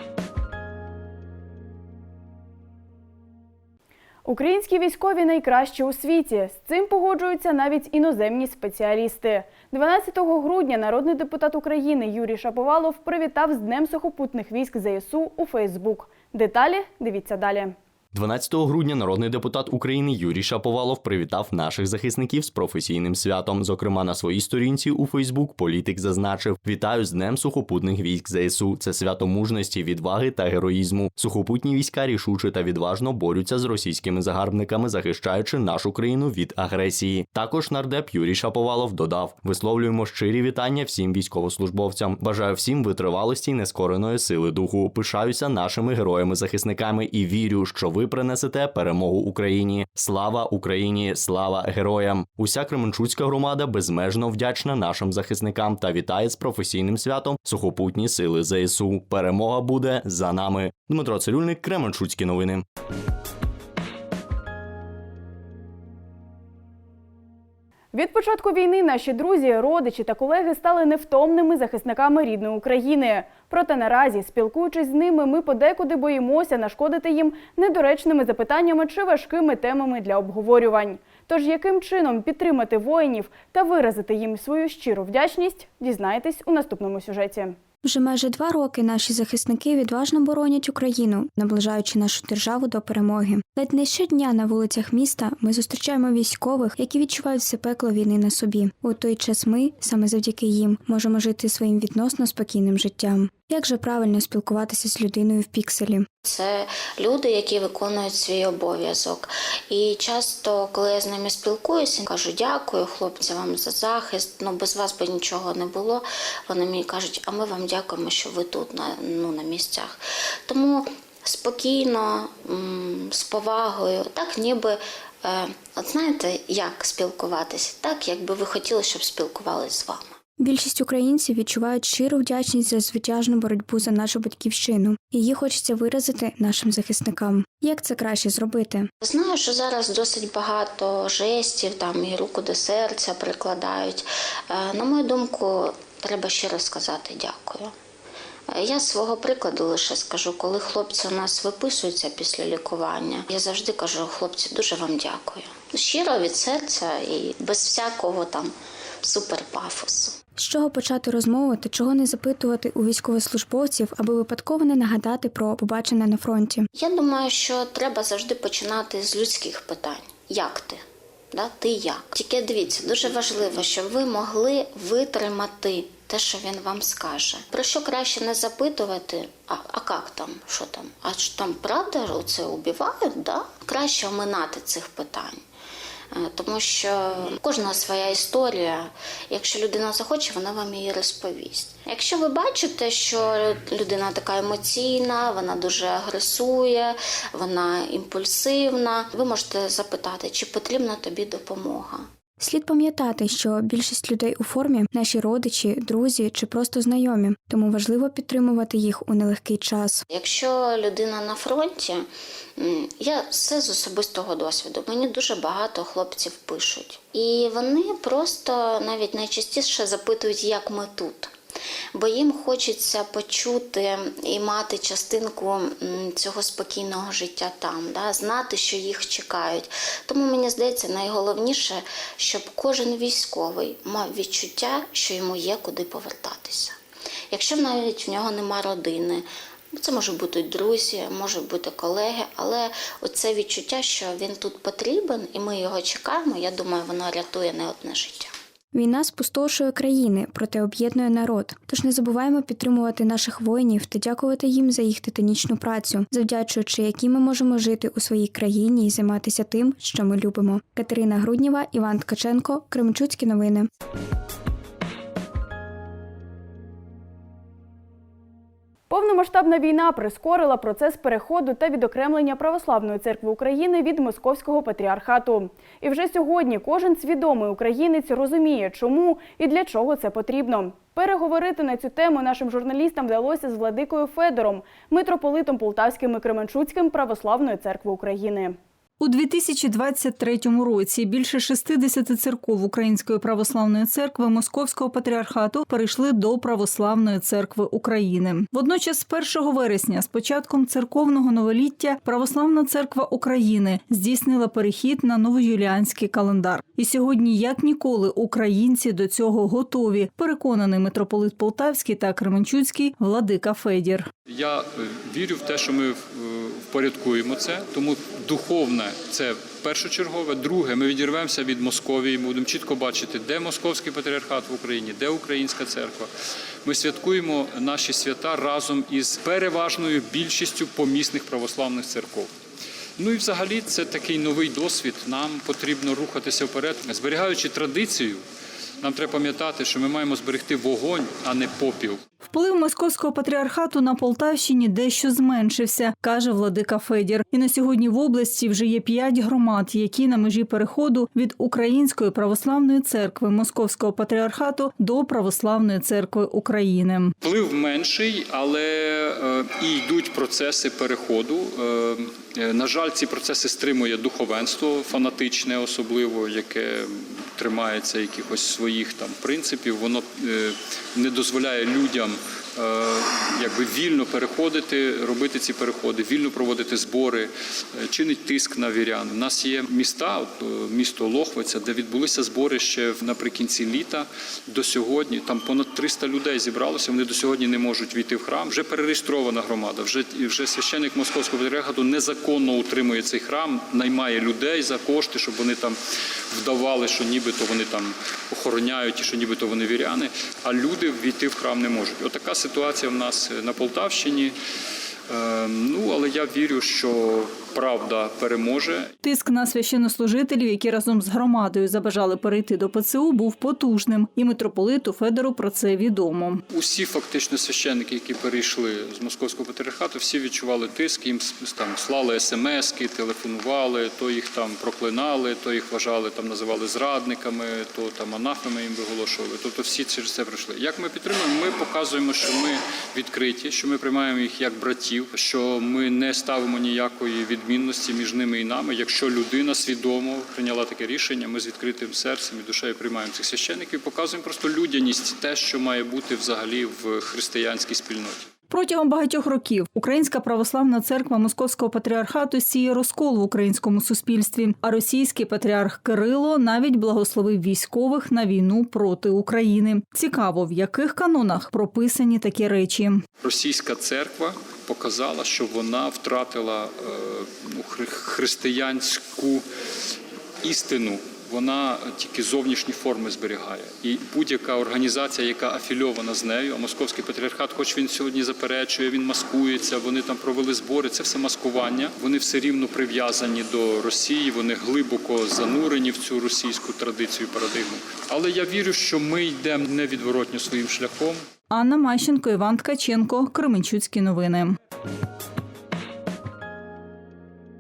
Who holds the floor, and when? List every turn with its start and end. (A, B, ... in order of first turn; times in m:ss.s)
0:04.2-0:17.8 A
0:18.1-1:02.6 B
1:07.9-1:27.6 A
1:27.8-1:46.1 C
1:46.2-2:10.2 D
2:10.4-2:18.9 C
2:19.0-2:27.8 D
2:28.5-2:40.2 D
2:40.4-2:46.7 C
2:46.7-3:05.4 D
3:06.1-3:22.1 D
3:22.4-3:30.0 C
3:30.1-3:41.3 D
3:41.9-3:56.8 D
3:57.3-4:08.3 D
4:08.7-4:23.7 C
4:28.9-4:48.6 A
4:49.0-5:14.1 E
5:14.3-5:26.1 F
5:26.6-5:32.3 F
5:33.0-5:38.2 F
5:38.8-5:42.0 F
5:42.3-5:57.1 E
5:57.2-6:35.8 F
6:36.3-6:44.4 F
6:45.1-6:48.9 F
6:49.0-6:56.4 E
6:56.5-7:28.3 F
7:28.5-7:43.0 E
7:43.2-7:49.4 F
7:50.4-8:11.2 F
8:11.5-8:14.6 E